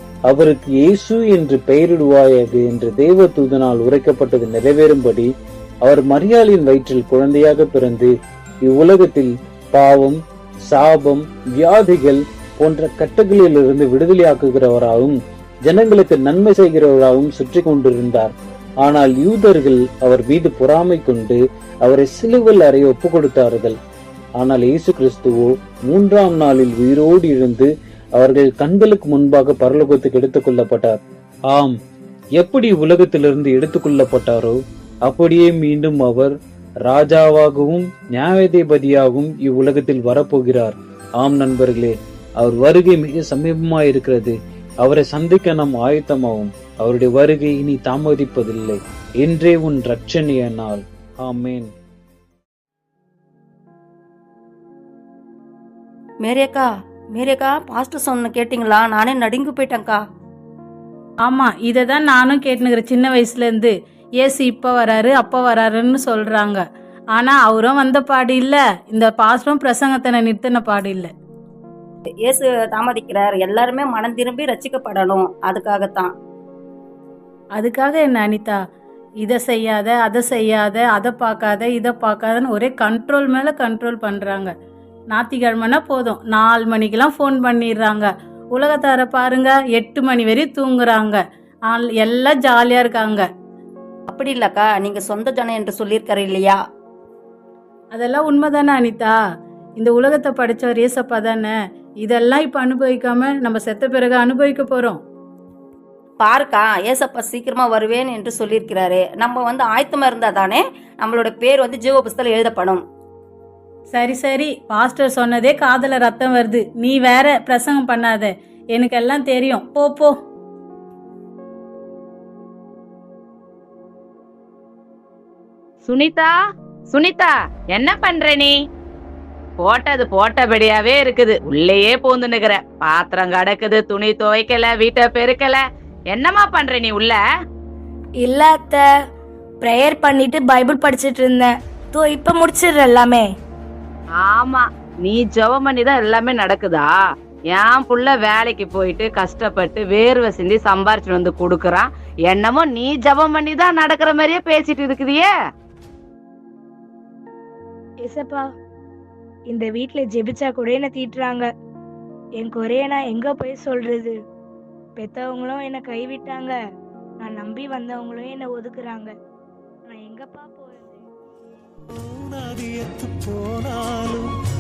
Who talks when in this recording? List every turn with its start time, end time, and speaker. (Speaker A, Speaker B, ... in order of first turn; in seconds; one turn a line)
Speaker A: 0.3-5.3
Speaker A: 5.8-8.1
Speaker A: 8.7-10.2
Speaker A: 10.7-15.2
Speaker A: 15.7-18.3
Speaker A: 18.8-23.8
Speaker A: 24.4-31.0
Speaker A: 32.4-36.3
Speaker A: 36.9-51.7
Speaker B: 56.2-60.0
Speaker C: 61.2-71.1
Speaker B: 72.1-76.1
Speaker C: 77.6-78.6
Speaker C: 79.2-84.5
Speaker C: 85.1-93.3
Speaker B: 94.1-96.6
Speaker C: 97.9-99.2
Speaker C: 99.8-105.0
Speaker B: 106.2-112.8
Speaker C: 113.9-120.2
Speaker D: 125.9-126.3
Speaker D: 126.9-128.5
Speaker D: 129.6-135.6
Speaker D: 136.1-137.2
Speaker E: 138.2-138.8
Speaker E: 139.6-143.2
Speaker D: 144.2-146.9
Speaker D: 147.5-155.3
Speaker E: 158.0-158.4
Speaker E: 159.5-161.5
Speaker E: 162.4-164.1
Speaker E: 165.0-166.6
Speaker E: 167.2-169.1
Speaker E: 169.9-171.0
Speaker F: 172.0-174.3